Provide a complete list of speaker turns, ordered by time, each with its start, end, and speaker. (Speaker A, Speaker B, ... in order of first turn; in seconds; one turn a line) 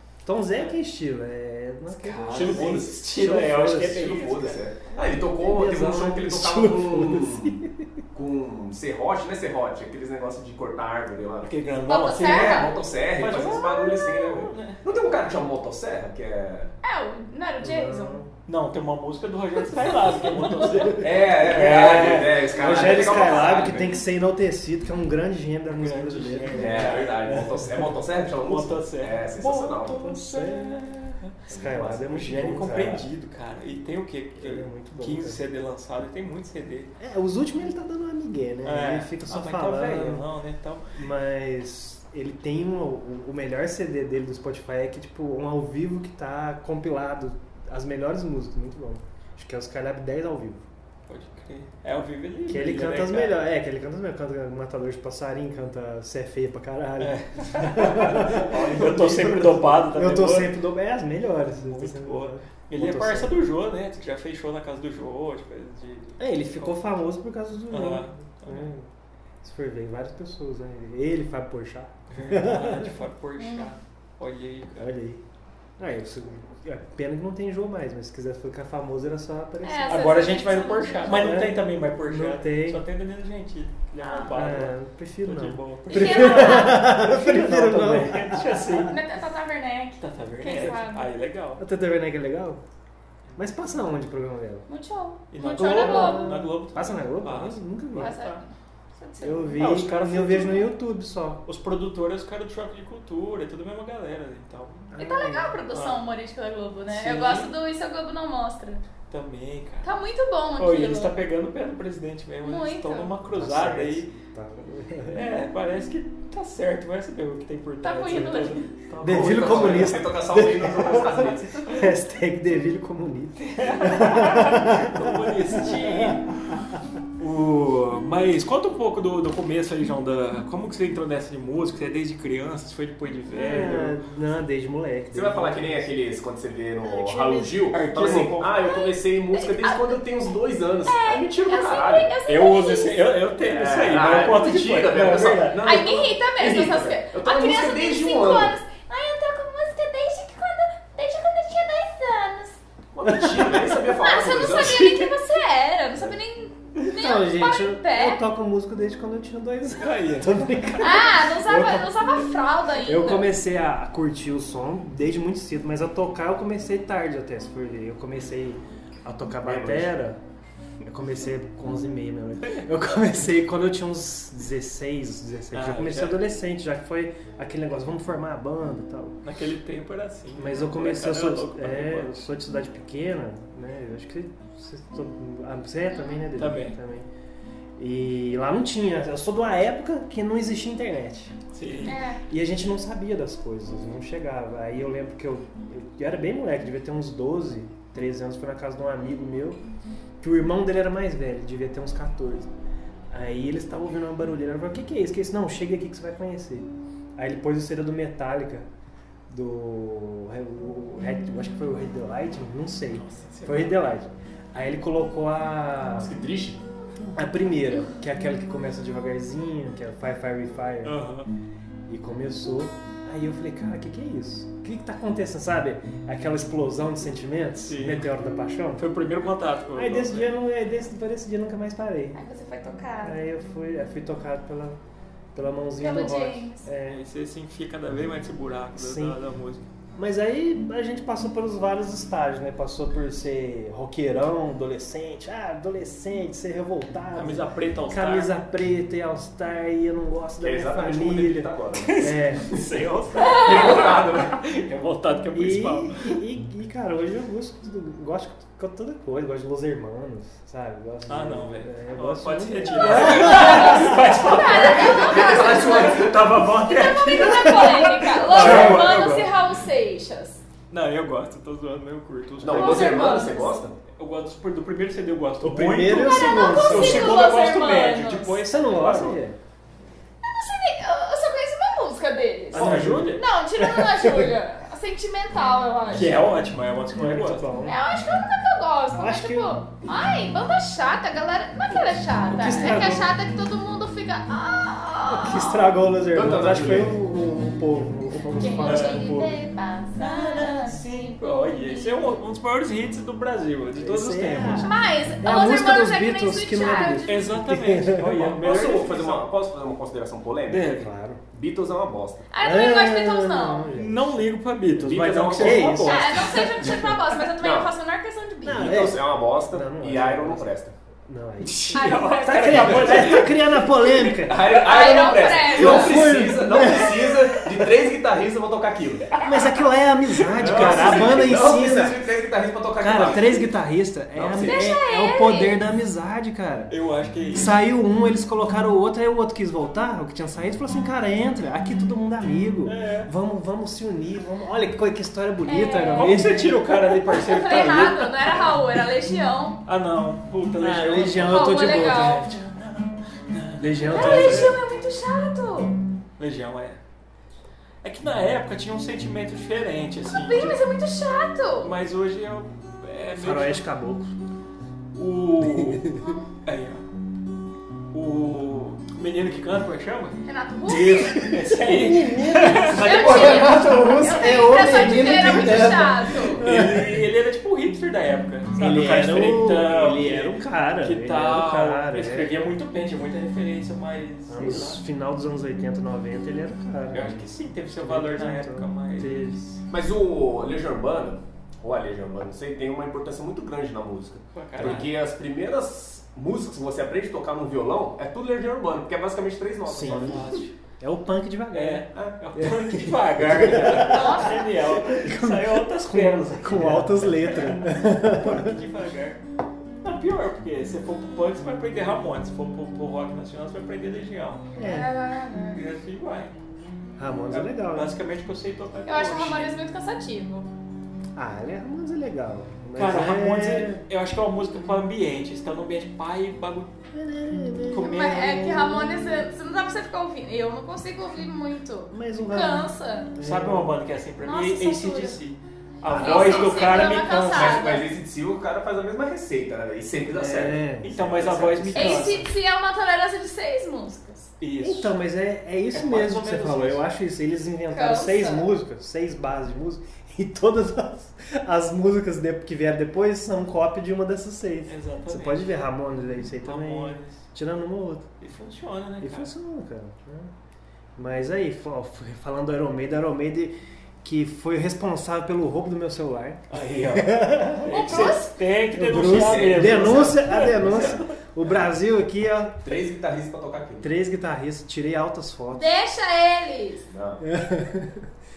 Speaker A: 0.2-4.2
Speaker B: 1.9-4.6
Speaker C: 2.3-7.6
Speaker A: 5.3-7.9
Speaker C: 8.1-11.5
Speaker B: 11.4-15.2
Speaker D: 11.9-12.8
Speaker C: 12.2-16.7
Speaker D: 16.8-18.1
Speaker A: 17.6-18.3
Speaker B: 18.5-23.8
Speaker A: 20.5-21.0
Speaker C: 20.9-23.9
Speaker A: 22.5-27.7
Speaker B: 25.8-27.4
Speaker C: 26.6-30.1
Speaker B: 28.4-31.4
Speaker A: 29.9-30.8
Speaker C: 31.5-32.6
Speaker A: 31.5-33.1
Speaker B: 32.1-36.9
Speaker A: 34.4-35.4
Speaker A: 37.0-40.3
Speaker B: 38.6-41.0
Speaker A: 41.0-50.6
Speaker B: 51.1-53.4
Speaker A: 52.5-63.4
Speaker B: 57.0-60.5
Speaker C: 58.2-59.5
Speaker B: 61.5-66.7
Speaker A: 66.2-68.9
Speaker B: 67.7-68.7
Speaker A: 69.4-72.9
Speaker B: 72.1-74.8
Speaker D: 73.4-73.7
Speaker A: 74.8-75.2
Speaker A: 75.8-80.5
Speaker D: 79.6-81.4
Speaker B: 79.9-89.0
Speaker A: 81.0-82.8
Speaker D: 84.0-84.3
Speaker A: 84.3-88.9
Speaker D: 85.9-86.9
Speaker D: 88.8-91.1
Speaker B: 90.0-91.6
Speaker A: 91.6-92.6
Speaker A: 93.4-94.7
Speaker D: 94.7-96.3
Speaker B: 95.3-98.4
Speaker A: 95.5-98.2
Speaker D: 98.0-98.5
Speaker D: 99.0-99.6
Speaker A: 99.2-101.4
Speaker B: 99.5-100.7
Speaker B: 101.5-104.9
Speaker A: 104.9-105.6
Speaker D: 105.0-108.8
Speaker B: 105.7-106.0
Speaker B: 106.9-107.5
Speaker B: 109.1-109.9
Speaker D: 109.8-111.1
Speaker B: 110.6-114.1
Speaker D: 112.4-113.1
Speaker A: 113.3-115.2
Speaker B: 115.1-120.0
Speaker D: 117.8-118.7
Speaker A: 118.1-118.4
Speaker A: 119.0-126.2
Speaker C: 119.0-121.7
Speaker B: 123.4-126.5
Speaker B: 127.2-134.0
Speaker A: 133.3-135.9
Speaker C: 135.1-142.1
Speaker B: 137.4-138.5
Speaker D: 138.6-140.0
Speaker D: 140.8-143.0
Speaker B: 142.3-145.7
Speaker C: 143.4-148.6
Speaker D: 145.6-152.6
Speaker C: 152.9-155.1
Speaker A: 153.1-153.6
Speaker D: 153.6-158.2
Speaker A: 156.9-161.9
Speaker B: 159.7-160.9
Speaker D: 160.8-163.3
Speaker A: 162.8-170.2
Speaker C: 169.4-169.9
Speaker A: 170.8-179.2
Speaker B: 175.5-176.2
Speaker B: 179.2-182.2
Speaker A: 180.4-187.1
Speaker B: 186.4-186.8
Speaker A: 187.8-191.3
Speaker B: 191.5-192.0
Speaker D: 191.8-192.2
Speaker A: 192.3-199.6
Speaker A: 200.2-202.5
Speaker A: 203.1-208.7
Speaker A: 209.3-216.1
Speaker B: 212.9-213.8
Speaker C: 216.0-216.6
Speaker A: 217.1-221.0
Speaker B: 220.8-221.3
Speaker A: 221.9-228.8
Speaker B: 227.7-228.1
Speaker B: 228.8-230.3
Speaker A: 229.8-232.2
Speaker D: 232.2-233.2
Speaker A: 233.0-234.8
Speaker A: 235.3-237.0
Speaker D: 235.8-236.7
Speaker B: 236.8-239.7
Speaker A: 238.8-239.2
Speaker A: 240.0-252.6
Speaker B: 247.1-248.3
Speaker C: 250.4-252.1
Speaker B: 251.8-256.2
Speaker C: 253.2-254.3
Speaker A: 255.3-264.3
Speaker B: 261.1-269.4
Speaker D: 262.8-270.4
Speaker C: 264.8-266.4
Speaker A: 268.3-269.1
Speaker B: 270.7-273.0
Speaker C: 272.4-273.8
Speaker D: 272.5-273.6
Speaker B: 274.0-279.2
Speaker A: 275.4-277.3
Speaker D: 275.9-278.4
Speaker A: 278.4-279.4
Speaker D: 280.2-286.2
Speaker B: 282.5-283.2
Speaker C: 282.6-282.9
Speaker A: 282.6-284.4
Speaker B: 285.9-287.5
Speaker A: 286.9-287.9
Speaker D: 287.6-295.8
Speaker A: 289.0-289.6
Speaker B: 292.3-292.9
Speaker A: 292.4-293.1
Speaker A: 295.1-299.3
Speaker C: 296.1-297.0
Speaker D: 298.4-302.1
Speaker B: 298.6-299.4
Speaker B: 300.0-304.7
Speaker A: 303.8-308.5
Speaker D: 304.6-307.4
Speaker B: 307.1-309.3
Speaker C: 308.2-310.7
Speaker B: 310.5-310.9
Speaker A: 310.8-311.2
Speaker C: 311.3-312.3
Speaker D: 312.3-313.7
Speaker A: 312.4-314.3
Speaker B: 313.8-316.9
Speaker C: 314.7-315.9
Speaker A: 315.3-317.0
Speaker D: 315.8-318.9
Speaker C: 317.4-317.7
Speaker A: 318.4-320.5
Speaker C: 318.5-320.7
Speaker A: 321.1-324.5
Speaker B: 321.4-323.6
Speaker D: 321.7-323.2
Speaker C: 324.1-329.2
Speaker D: 324.4-326.1
Speaker A: 325.4-327.5
Speaker B: 329.2-329.5
Speaker A: 329.2-332.0
Speaker B: 330.1-331.3
Speaker C: 330.3-333.5
Speaker A: 332.8-336.7
Speaker C: 334.1-334.7
Speaker D: 334.4-335.6
Speaker B: 336.7-337.6
Speaker A: 337.3-346.6
Speaker B: 342.6-343.1
Speaker D: 345.5-349.6
Speaker B: 346.0-348.6
Speaker B: 349.7-354.6
Speaker A: 350.6-352.4
Speaker D: 351.3-352.3
Speaker A: 353.6-354.6
Speaker D: 353.9-355.8
Speaker B: 356.2-356.8
Speaker B: 357.8-360.5
Speaker D: 360.1-361.7
Speaker B: 361.6-363.6
Speaker A: 363.2-364.1
Speaker B: 364.9-366.8
Speaker A: 365.4-366.0
Speaker D: 366.0-366.3
Speaker B: 367.9-375.7
Speaker D: 370.2-371.4
Speaker A: 371.5-377.1
Speaker D: 372.5-376.4
Speaker C: 372.9-373.3
Speaker B: 376.3-384.8
Speaker A: 378.6-382.5
Speaker A: 384.3-389.5
Speaker B: 386.9-389.6
Speaker C: 389.7-400.2
Speaker B: 394.3-394.9
Speaker A: 399.7-400.3
Speaker B: 399.9-400.5
Speaker A: 400.8-408.6
Speaker B: 401.5-409.2
Speaker D: 403.8-404.5
Speaker B: 409.8-414.5
Speaker A: 414.6-414.9
Speaker D: 414.6-415.6
Speaker B: 415.5-416.4
Speaker A: 417.0-417.9
Speaker B: 417.6-419.5
Speaker D: 418.9-420.5
Speaker A: 421.1-423.8
Speaker B: 422.8-426.7
Speaker A: 426.9-429.2
Speaker B: 427.7-428.3
Speaker D: 427.7-433.1
Speaker A: 431.9-433.8
Speaker B: 433.2-437.6
Speaker D: 434.2-435.2
Speaker A: 435.9-436.6
Speaker D: 435.9-437.9
Speaker C: 437.3-442.3
Speaker A: 440.1-440.9
Speaker B: 440.8-442.3
Speaker D: 441.8-444.3
Speaker B: 444.4-444.9
Speaker A: 444.6-458.1
Speaker B: 445.7-446.8
Speaker D: 447.7-448.5
Speaker B: 454.7-455.6
Speaker B: 456.4-457.2
Speaker B: 458.2-459.3
Speaker A: 459.0-460.3
Speaker A: 461.0-468.2
Speaker B: 466.5-471.1
Speaker D: 467.7-468.3
Speaker A: 468.7-472.6
Speaker C: 468.9-470.6
Speaker C: 472.6-473.9
Speaker A: 473.8-475.7
Speaker D: 475.5-476.9
Speaker C: 476.9-477.2
Speaker A: 477.2-478.1